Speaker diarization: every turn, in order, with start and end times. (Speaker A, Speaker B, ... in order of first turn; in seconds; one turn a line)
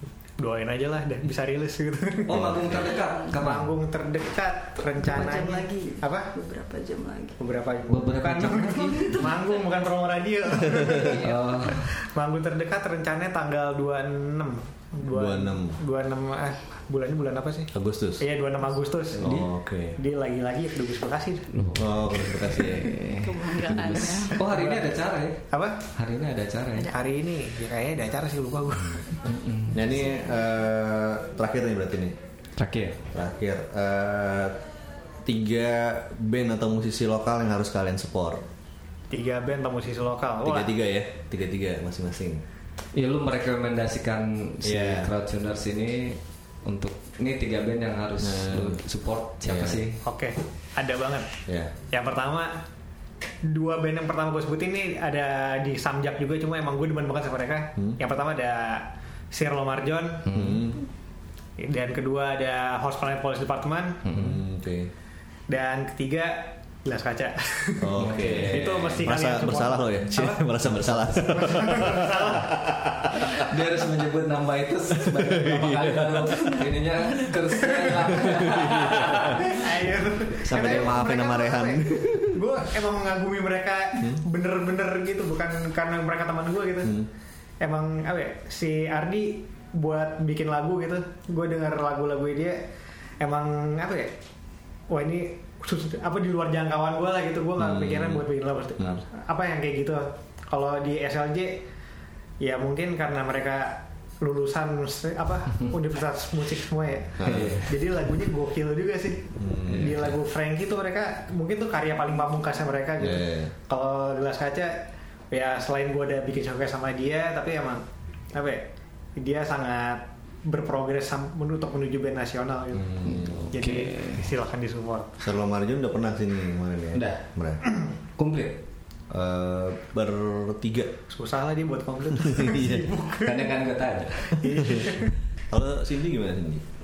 Speaker A: 0.4-2.5
Speaker B: 2.3-3.7
Speaker C: 2.3-2.9
Speaker A: 3.3-6.3
Speaker D: 5.0-7.4
Speaker A: 7.4-19.3
Speaker B: 7.9-9.3
Speaker D: 8.7-9.8
Speaker C: 10.6-11.1
Speaker D: 10.9-11.4
Speaker B: 11.0-11.9
Speaker C: 15.1-15.8
Speaker C: 17.7-18.2
Speaker C: 19.2-20.0
Speaker B: 19.2-19.5
Speaker A: 20.0-21.5
Speaker B: 21.5-26.9
Speaker C: 21.7-23.2
Speaker D: 23.0-24.4
Speaker A: 24.3-25.0
Speaker A: 25.5-25.8
Speaker A: 26.9-29.2
Speaker B: 29.2-29.8
Speaker C: 29.7-32.1
Speaker B: 32.5-33.0
Speaker C: 33.1-34.6
Speaker C: 35.2-38.4
Speaker A: 39.1-40.7
Speaker C: 40.4-42.4
Speaker B: 42.9-50.0
Speaker C: 44.6-45.1
Speaker C: 48.2-48.8
Speaker C: 49.4-49.8
Speaker A: 50.0-51.3
Speaker C: 51.5-51.7
Speaker A: 51.9-52.6
Speaker A: 53.4-60.4
Speaker B: 60.3-60.6
Speaker C: 60.3-60.9
Speaker A: 61.6-64.0
Speaker B: 64.1-64.4
Speaker C: 64.1-64.9
Speaker A: 65.5-73.2
Speaker C: 67.8-73.5
Speaker B: 68.0-69.0
Speaker B: 73.3-79.7
Speaker C: 74.9-76.5
Speaker D: 76.3-77.8
Speaker C: 78.3-79.3
Speaker A: 79.3-87.0
Speaker C: 80.3-82.5
Speaker A: 87.6-92.6
Speaker A: 93.2-94.2
Speaker A: 94.9-101.6
Speaker C: 97.6-99.0
Speaker A: 102.4-114.8
Speaker C: 107.2-107.6
Speaker B: 107.2-107.7
Speaker C: 109.4-110.0
Speaker B: 109.7-110.0
Speaker C: 113.0-113.5
Speaker A: 115.3-125.1
Speaker C: 122.7-123.5
Speaker B: 123.0-124.2
Speaker C: 125.2-127.6
Speaker B: 126.9-127.2
Speaker B: 128.2-128.6
Speaker C: 129.1-130.9
Speaker A: 131.1-133.5
Speaker C: 132.1-132.9
Speaker B: 133.1-134.3
Speaker A: 134.3-135.1
Speaker C: 134.4-136.6